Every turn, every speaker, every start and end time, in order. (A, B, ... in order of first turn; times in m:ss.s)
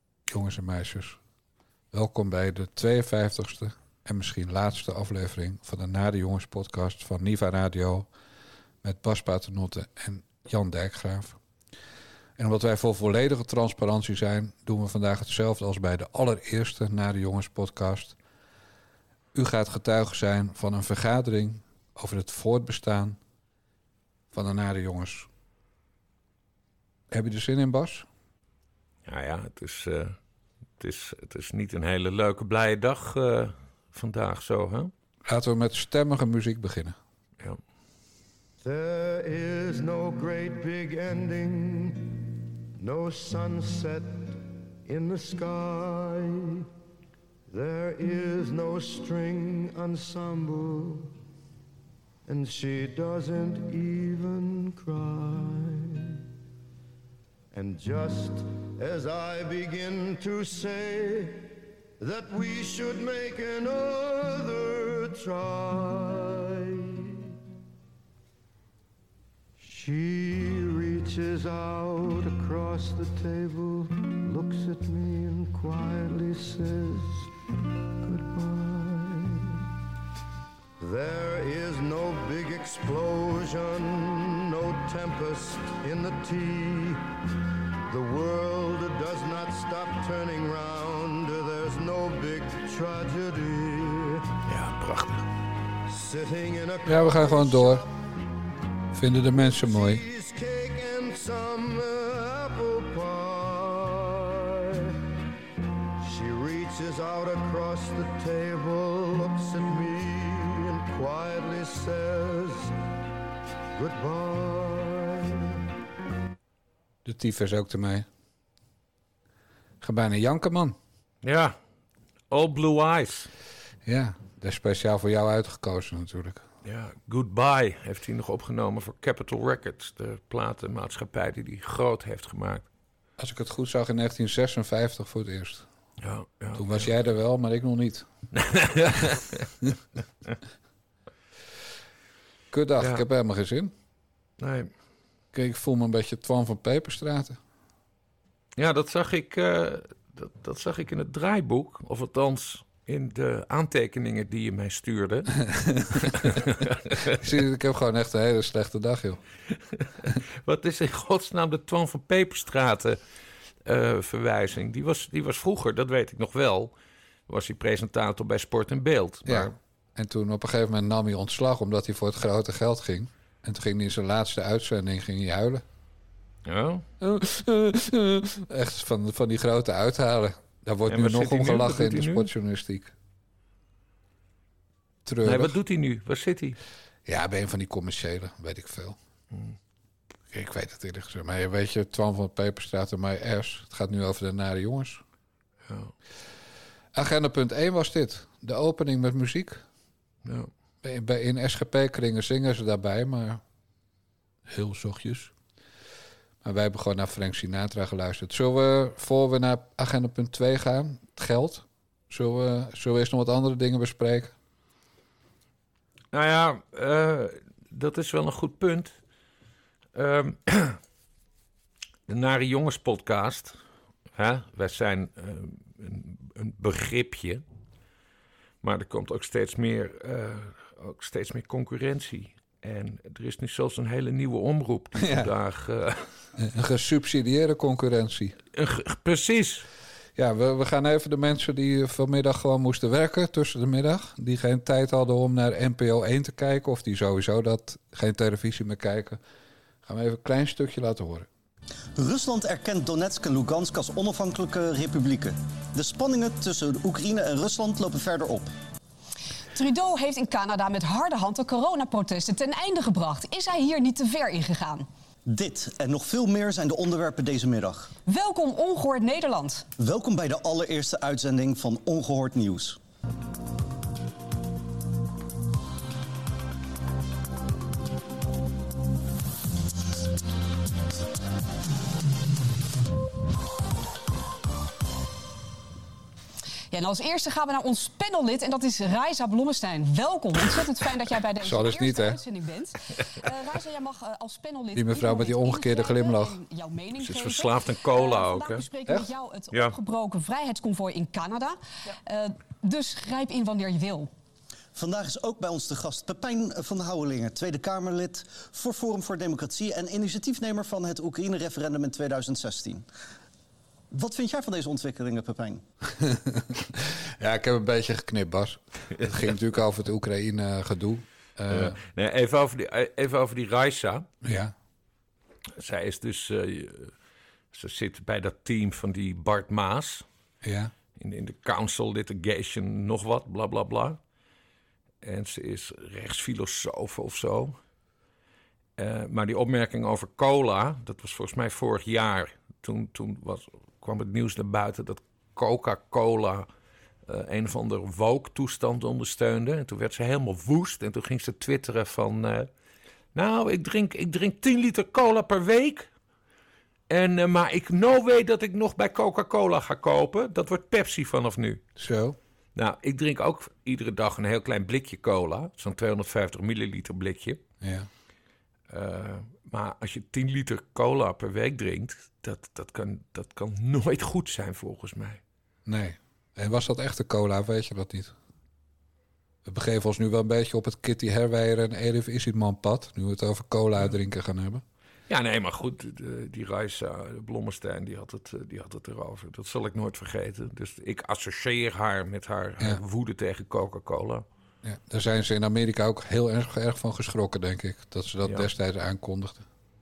0:00.3-0:01.2 A
0:01.9-0:08.1 A
0:08.8-0:11.4 A
0:12.4-0:18.2 A
0:19.3-0:23.2 A
0:24.3-0:25.3 A
0:27.1-0:28.1 A
0:29.1-0:30.2 B
0:30.8-0:34.9 B
0:35.3-0:37.0 A
0:38.6-0:42.2 C
0:42.8-0:46.7 C
0:47.5-0:51.1 C
0:52.3-0:56.2 C
0:57.5-1:07.2 C
1:09.6-1:17.3 C
1:18.0-1:19.7 C
1:20.8-1:27.0 C
1:27.9-1:34.3 C
1:34.5-1:35.3 B
1:35.9-1:38.0 C
1:36.9-1:37.8 A
1:38.9-1:40.0 A
1:39.3-1:45.0 C
1:46.0-1:52.7 C
1:53.8-1:55.6 C
1:57.0-1:58.1 A
1:59.8-2:00.8 A
2:01.2-2:01.6 B
2:02.3-2:03.3 B
2:03.8-2:06.4 A
2:06.6-2:12.7 B
2:13.2-2:15.7 A
2:16.0-2:16.9 B
2:16.6-2:18.1 A
2:18.3-2:19.5 B
2:22.5-2:23.7 A
2:22.8-2:23.0 B
2:24.4-2:24.7 B
2:25.3-2:27.4 A
2:28.6-2:35.4 B
2:35.5-2:36.3 A
2:36.0-2:37.2 B
2:37.1-2:39.2 A
2:39.7-2:43.0 B
2:43.6-2:46.7 B
2:47.3-2:49.5 B
2:49.3-2:55.6 A
2:56.5-2:56.8 B
2:57.0-3:02.9 A
3:00.9-3:02.3 B
3:05.0-3:05.6 A
3:05.2-3:06.6 B
3:07.1-3:09.0 A
3:10.3-3:15.0 A
3:15.7-3:15.9 B
3:16.9-3:19.6 A
3:20.2-3:20.5 B
3:20.8-3:23.4 A
3:24.5-3:25.3 A
3:26.4-3:34.3 A
3:36.1-3:38.9 B
3:40.0-3:40.8 B
3:42.1-3:43.6 B
3:44.2-3:47.4 B
3:48.6-3:56.1 B
3:55.0-3:55.3 A
3:56.4-3:58.4 A
3:58.5-3:59.7 B
4:00.2-4:09.2 A
4:09.8-4:11.3 A
4:12.0-4:18.5 D
4:19.6-4:24.9 E
4:25.3-4:27.9 D
4:28.1-4:29.7 E
4:29.8-4:32.8 D
4:46.7-5:04.1 E
4:51.4-4:52.2 A
4:54.8-4:56.4 A
4:57.0-4:58.6 B
5:04.8-5:12.9 D
5:13.9-5:15.6 D
5:16.0-5:21.8 A
5:21.5-5:24.1 B
5:24.2-5:24.5 A
5:25.6-5:26.9 B
5:27.5-5:30.0 B
5:30.4-5:30.7 A
5:31.0-5:34.0 B
5:35.0-5:37.6 B
5:38.8-5:46.5 B
5:47.1-5:52.5 B
5:53.2-5:55.9 B
5:56.9-6:01.6 B
6:01.8-6:02.2 A
6:02.6-6:07.4 B
6:07.6-6:07.9 A
6:08.7-6:15.2 B
6:15.7-6:18.1 A
6:19.4-6:24.6 A
6:25.1-6:34.2 B
6:34.6-6:39.5 A